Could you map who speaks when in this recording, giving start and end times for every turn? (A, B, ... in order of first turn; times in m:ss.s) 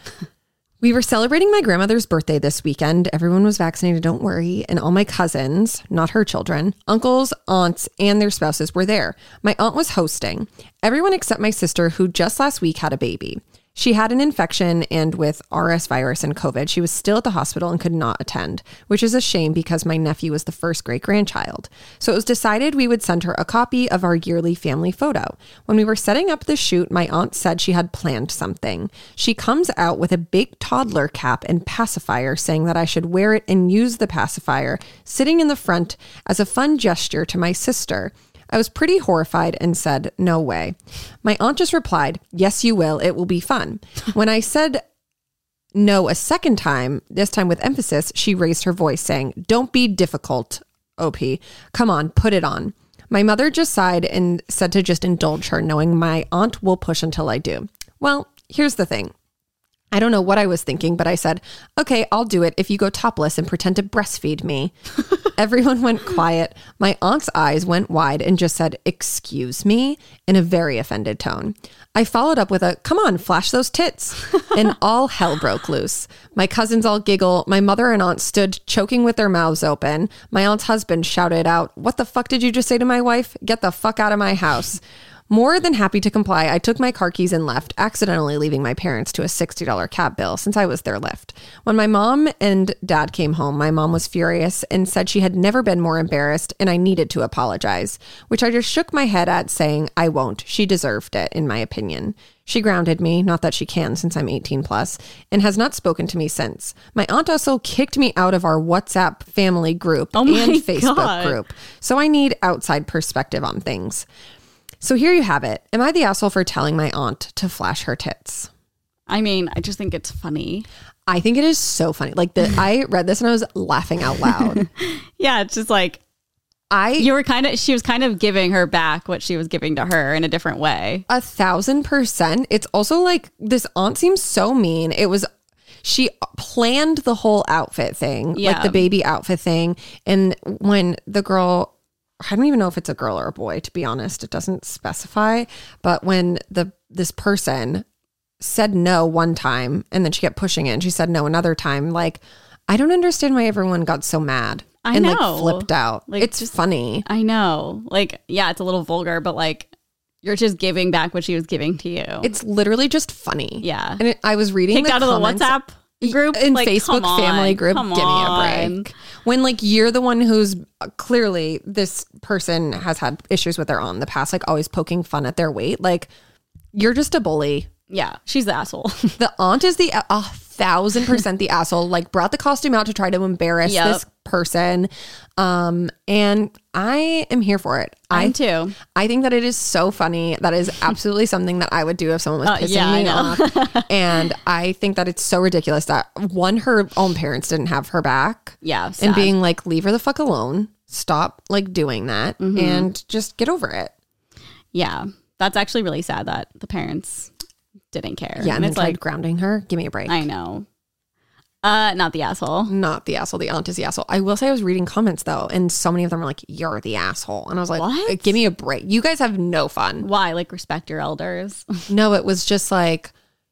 0:00.8-0:44.8 A
0:45.7-0:59.1 A
0:59.9-1:54.1 A
1:50.2-1:51.4 B
1:54.8-1:58.5 A
1:59.1-2:00.7 B
2:01.1-2:04.6 A
2:04.5-2:06.0 B
2:06.7-2:07.1 A
2:07.0-2:11.0 B
2:11.1-2:15.3 A
2:15.8-2:27.8 A
2:18.4-2:18.8 B
2:28.4-2:37.0 A
2:34.8-2:36.4 B
2:37.0-2:39.7 B
2:40.2-2:42.3 B
2:42.2-2:56.1 A
2:43.6-2:44.0 B
2:44.7-2:48.9 B
2:56.7-2:57.7 A
2:57.9-2:59.2 B
2:59.2-3:08.4 A
3:03.6-3:04.0 B
3:08.1-3:08.8 B
3:08.9-3:23.9 A
3:12.4-3:13.9 B
3:18.6-3:19.4 B
3:22.4-3:22.9 B
3:24.7-3:27.3 B
3:27.9-3:29.0 B
3:28.4-3:30.3 A
3:30.1-3:30.7 B
3:31.6-3:32.7 B
3:32.7-3:40.1 A
3:37.8-3:38.4 B
3:40.0-3:41.8 B
3:41.9-3:43.1 A